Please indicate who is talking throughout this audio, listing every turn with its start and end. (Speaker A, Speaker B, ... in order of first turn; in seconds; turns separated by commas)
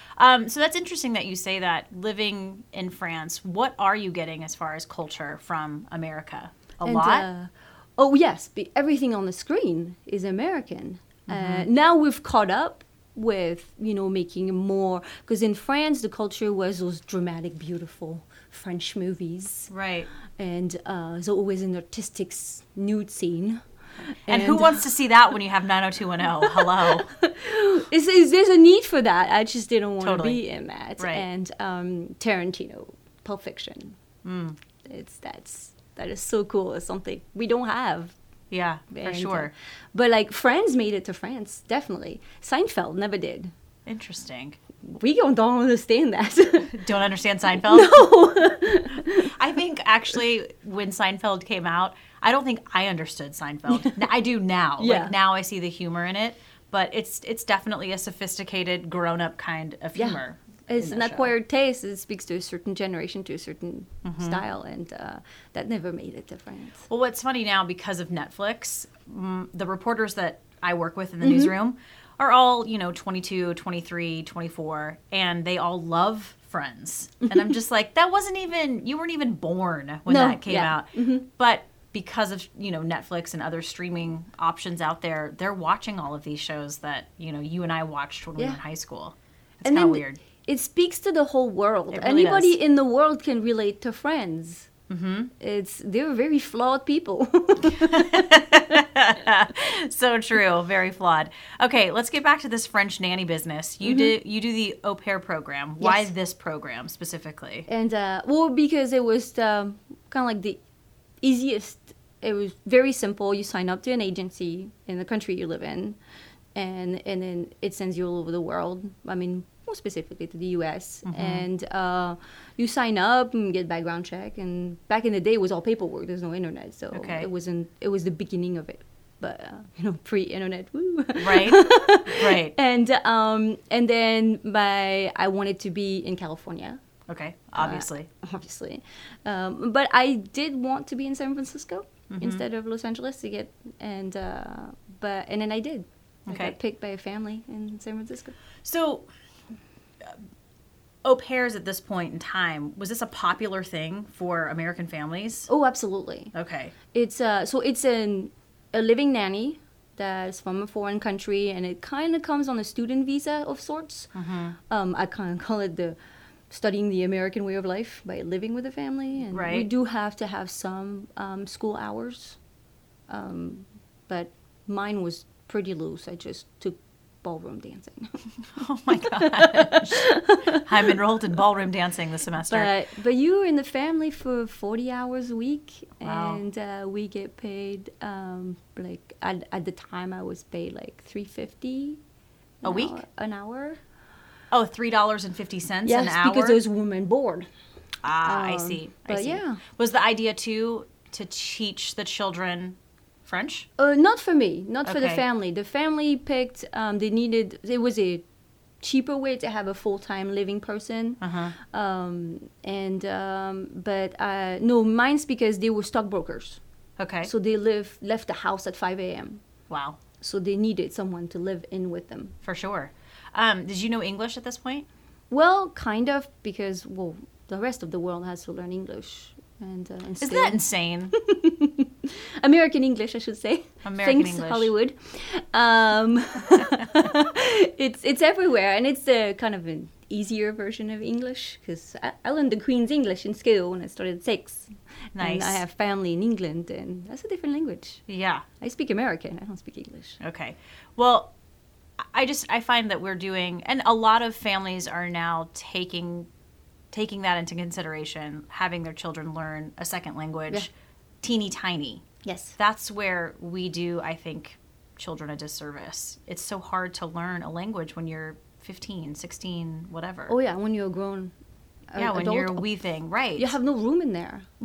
Speaker A: 0.2-7.3, Speaker B: 6.8-19.7, Speaker A: 11.3-11.7, Speaker A: 19.7-20.1, Speaker B: 20.4-23.6, Speaker B: 24.3-24.9, Speaker A: 24.3-27.1, Speaker B: 26.4-34.0, Speaker A: 30.0-30.4, Speaker A: 31.0-31.2, Speaker A: 34.2-34.6, Speaker B: 34.8-38.2, Speaker A: 38.5-39.5, Speaker B: 38.9-43.5, Speaker A: 43.9-44.6, Speaker B: 44.8-46.8, Speaker A: 46.7-48.1, Speaker B: 47.5-49.3, Speaker A: 49.0-61.3, Speaker B: 53.7-54.0, Speaker B: 54.8-55.1, Speaker B: 60.0-66.8, Speaker A: 64.0-64.4, Speaker A: 66.9-90.2, Speaker B: 71.2-71.5, Speaker B: 80.1-81.3, Speaker B: 89.7-94.7, Speaker A: 91.9-92.6, Speaker A: 94.9-95.3, Speaker B: 95.4-98.6, Speaker A: 97.6-107.7, Speaker B: 103.8-104.1, Speaker B: 105.8-106.1, Speaker B: 107.7-110.6, Speaker B: 111.2-116.0, Speaker B: 116.5-136.8, Speaker A: 121.0-121.5, Speaker A: 126.9-127.3, Speaker A: 131.2-132.6, Speaker A: 137.1-138.1, Speaker B: 137.6-148.4, Speaker A: 142.1-142.4, Speaker A: 146.3-146.6, Speaker A: 148.6-149.1, Speaker A: 151.0-155.5, Speaker B: 155.5-156.3, Speaker A: 156.3-156.8, Speaker B: 156.9-164.1, Speaker A: 164.1-164.6, Speaker B: 164.7-166.0, Speaker B: 166.5-172.4, Speaker A: 169.3-169.7, Speaker B: 173.1-178.2, Speaker A: 178.6-182.7, Speaker B: 178.9-180.9, Speaker B: 182.4-192.0, Speaker A: 186.0-186.4, Speaker B: 192.6-193.8, Speaker A: 192.7-193.0, Speaker A: 194.5-196.6, Speaker B: 195.8-197.5, Speaker A: 198.0-203.7, Speaker B: 198.2-199.6, Speaker B: 203.8-208.2, Speaker A: 204.8-205.2, Speaker B: 208.8-216.6, Speaker A: 211.2-211.6, Speaker A: 217.0-217.3, Speaker B: 217.2-219.4, Speaker A: 219.7-220.0, Speaker B: 220.2-222.3, Speaker A: 222.4-224.9, Speaker B: 225.3-248.0, Speaker A: 230.2-231.2, Speaker A: 233.8-234.7, Speaker A: 236.6-236.9, Speaker A: 245.2-245.6, Speaker A: 248.1-248.4, Speaker B: 248.6-250.2, Speaker A: 250.2-251.3, Speaker A: 252.0-256.3, Speaker A: 256.9-260.7, Speaker A: 261.2-262.0, Speaker B: 262.2-262.6, Speaker A: 262.6-270.3, Speaker B: 270.3-271.3, Speaker B: 271.9-272.7, Speaker A: 272.0-273.6, Speaker B: 273.4-274.5